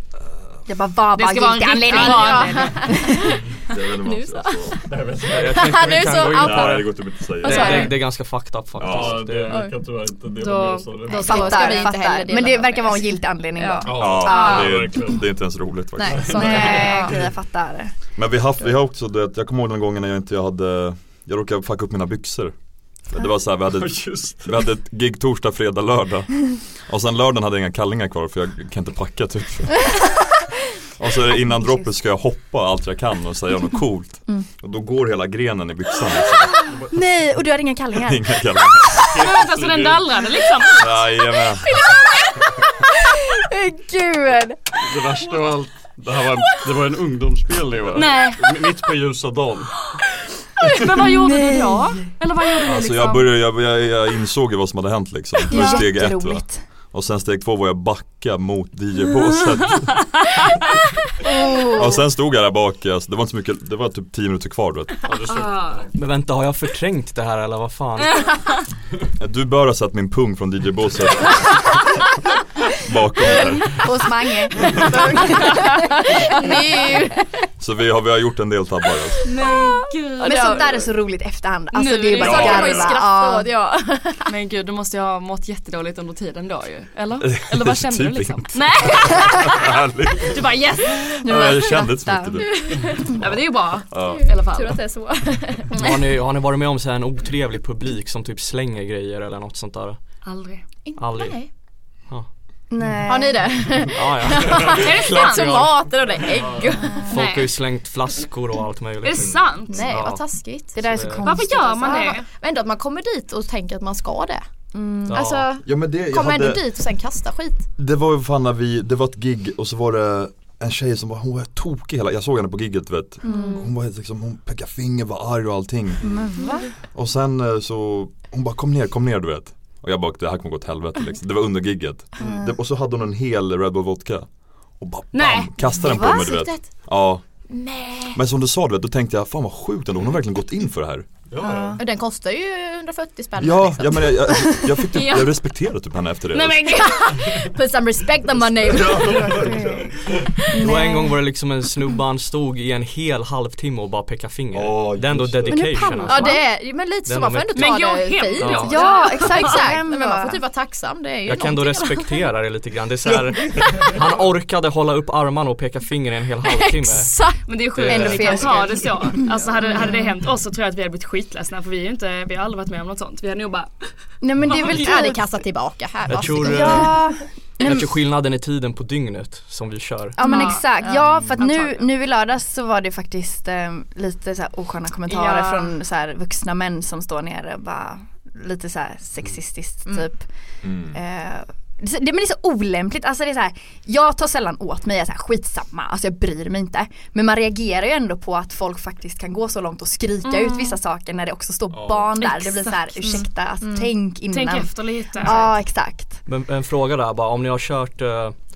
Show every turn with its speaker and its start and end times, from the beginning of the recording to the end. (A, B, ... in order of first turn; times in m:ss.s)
0:00.7-0:03.2 A
0:01.1-0:03.2 B
0:01.9-0:03.4 C
0:03.7-0:04.8 D
0:04.0-0:04.8 C
0:04.9-0:05.7 E
0:05.3-0:09.6 F
0:05.5-0:06.9 C
0:06.3-0:07.9 D
0:07.4-0:08.0 C
0:08.8-0:09.3 D
0:08.8-0:11.8 E
0:09.5-0:09.7 C
0:10.3-0:11.7 B
0:11.0-0:14.5 C
0:11.2-0:14.7 A
0:13.8-0:15.2 E
0:13.9-0:16.8 D
0:14.3-0:14.8 B
0:16.0-0:17.2 C
0:16.1-0:17.2 E
0:16.3-0:17.9 A
0:18.1-0:30.2 D
0:23.7-0:24.6 E
0:31.0-0:36.7 D
0:31.5-0:31.9 A
0:36.8-0:39.2 A
0:38.0-0:39.0 D
0:39.1-0:40.1 E
0:39.1-0:41.1 B
0:40.8-0:41.7 D
0:41.7-0:42.4 A
0:43.3-0:44.6 A
0:44.8-0:49.7 E
0:47.9-0:48.6 B
0:50.6-0:53.3 B
0:50.9-0:52.0 A
0:52.6-1:00.2 D
0:55.5-0:56.6 A
0:55.5-0:55.8 B
1:01.2-1:02.0 A
1:01.7-1:05.1 D
1:05.0-1:05.9 E
1:05.3-1:05.9 B
1:05.9-1:08.3 F
1:09.2-1:11.8 D
1:12.8-1:13.9 D
1:13.7-1:15.8 A
1:14.6-1:17.3 C
1:17.6-1:19.3 D
1:19.3-1:20.8 B
1:19.3-1:20.9 C
1:20.2-1:23.5 A
1:21.7-1:23.0 B
1:22.1-1:24.3 C
1:22.2-1:22.9 D
1:24.3-1:29.7 B
1:27.2-1:30.4 D
1:30.2-1:31.2 B
1:31.1-1:33.4 D
1:31.2-1:32.4 A
1:32.4-1:35.7 C
1:33.2-1:34.8 B
1:33.9-1:34.2 D
1:35.7-1:40.0 F
1:40.2-1:40.6 B
1:40.9-1:41.5 C
1:41.0-1:41.4 F
1:42.7-1:43.7 A
1:43.0-1:47.1 C
1:43.9-1:45.5 F
1:44.8-1:45.7 B
1:47.1-1:50.3 F
1:47.1-1:47.5 B
1:49.0-1:49.8 B
1:49.7-1:50.8 C
1:50.7-1:52.1 A
1:50.8-1:51.3 F
1:51.2-1:52.3 B
1:51.6-1:54.4 C
1:54.7-1:55.2 A
1:55.0-1:55.5 F
1:55.1-1:57.6 C
1:55.6-1:56.6 D
1:57.8-2:06.2 D
2:03.2-2:03.6 C
2:03.3-2:03.6 B
2:06.0-2:06.7 A
2:06.1-2:06.7 C
2:06.9-2:17.2 D
2:12.2-2:12.5 A
2:15.1-2:16.0 B
2:15.8-2:16.7 C
2:15.9-2:16.2 A
2:17.5-2:18.2 C
2:18.1-2:21.1 D
2:21.3-2:21.8 E
2:21.4-2:21.8 A
2:21.8-2:24.6 C
2:23.4-2:26.8 D
2:24.9-2:25.4 B
2:26.3-2:27.4 B
2:26.7-2:29.5 C
2:28.8-2:31.1 A
2:28.8-2:29.7 D
2:30.5-2:31.1 C
2:30.6-2:36.4 F
2:34.5-2:36.1 D
2:35.6-2:42.2 C
2:35.9-2:36.3 A
2:37.0-2:38.8 F
2:37.6-2:39.7 B
2:38.6-2:40.4 A
2:41.2-2:47.1 F
2:46.4-2:47.5 C
2:47.5-2:53.7 B
2:47.7-2:48.5 F
2:47.8-2:49.2 A
2:54.2-2:55.3 A
2:54.5-2:57.0 C
2:56.1-2:57.0 F
2:56.3-2:57.9 A
2:57.6-3:00.2 F
3:00.2-3:10.3 A
3:00.2-3:00.8 B
3:00.2-3:01.2 C
3:01.4-3:01.8 B
3:05.1-3:05.7 B
3:10.6-3:11.0 D
3:10.9-3:26.2 A
3:20.2-3:20.8 B
3:21.7-3:22.1 E
3:22.2-3:23.2 B
3:23.0-3:23.9 C
3:24.3-3:25.5 B
3:26.3-3:28.3 F